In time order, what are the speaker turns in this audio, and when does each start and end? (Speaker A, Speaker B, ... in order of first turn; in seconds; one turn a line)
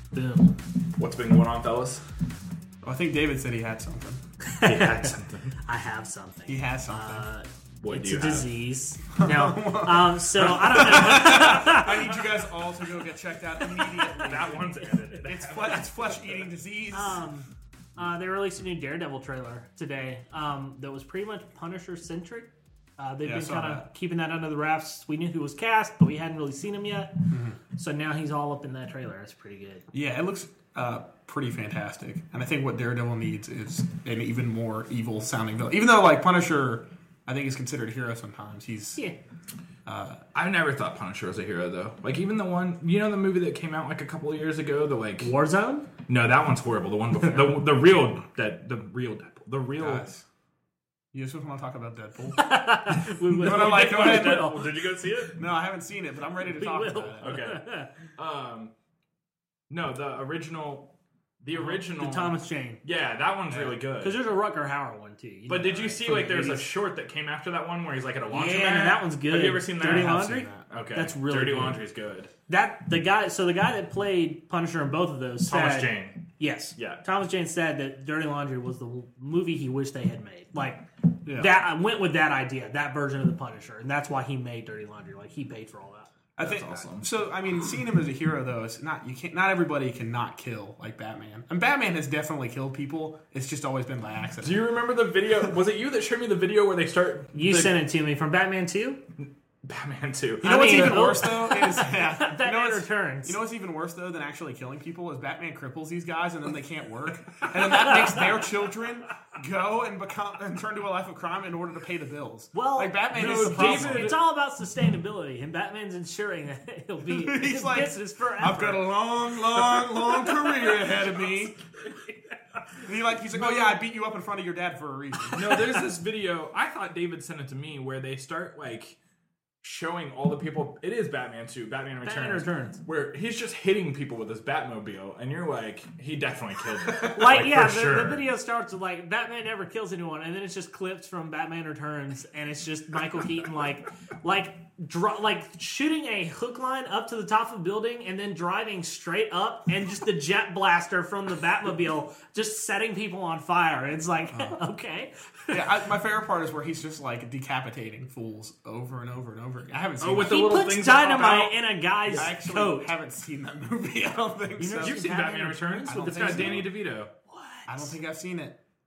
Speaker A: 0.1-0.6
Speaker B: 0.9-2.0
Speaker C: 2.8-4.2
Speaker A: 4.5-12.1
Speaker B: 4.6-5.5
Speaker C: 6.5-7.2
Speaker B: 7.8-8.5
Speaker C: 9.2-17.2
Speaker A: 13.6-14.3
Speaker B: 14.2-16.4
Speaker A: 16.9-29.9
Speaker C: 23.2-23.9
Speaker C: 27.3-27.6
Speaker C: 29.9-39.0
Speaker C: 39.9-40.2
Speaker B: 40.3-45.3
Speaker A: 45.2-45.9
Speaker B: 46.1-50.0
Speaker C: 49.8-50.2
Speaker C: 51.1-54.7
Speaker A: 52.3-54.7
Speaker B: 53.3-55.4
Speaker C: 55.3-57.3
Speaker A: 56.5-57.9
Speaker B: 57.2-58.7
Speaker B: 59.7-64.2
Speaker A: 61.5-62.8
Speaker A: 64.0-66.7
Speaker B: 65.5-72.3
Speaker A: 68.3-71.8
Speaker C: 69.8-70.7
Speaker A: 72.5-86.1
Speaker B: 75.5-76.2
Speaker B: 76.8-77.0
Speaker C: 81.2-81.5
Speaker C: 86.4-94.7
Speaker B: 86.4-87.1
Speaker B: 94.4-97.7
Speaker A: 97.3-99.0
Speaker B: 99.6-101.2
Speaker C: 100.4-114.2
Speaker A: 100.4-103.4
Speaker A: 107.6-108.4
Speaker A: 112.5-118.9
Speaker B: 113.1-114.2
Speaker C: 117.0-121.6
Speaker B: 119.7-121.4
Speaker C: 122.8-125.8
Speaker B: 123.3-123.8
Speaker B: 125.2-129.0
Speaker B: 129.6-138.2
Speaker A: 132.0-132.8
Speaker A: 137.1-155.5
Speaker C: 154.3-154.6
Speaker C: 155.5-160.4
Speaker B: 160.0-162.3
Speaker A: 160.2-162.9
Speaker C: 162.1-165.0
Speaker A: 164.6-166.6
Speaker B: 164.8-167.1
Speaker C: 165.8-166.7
Speaker A: 167.3-167.9
Speaker C: 167.7-168.6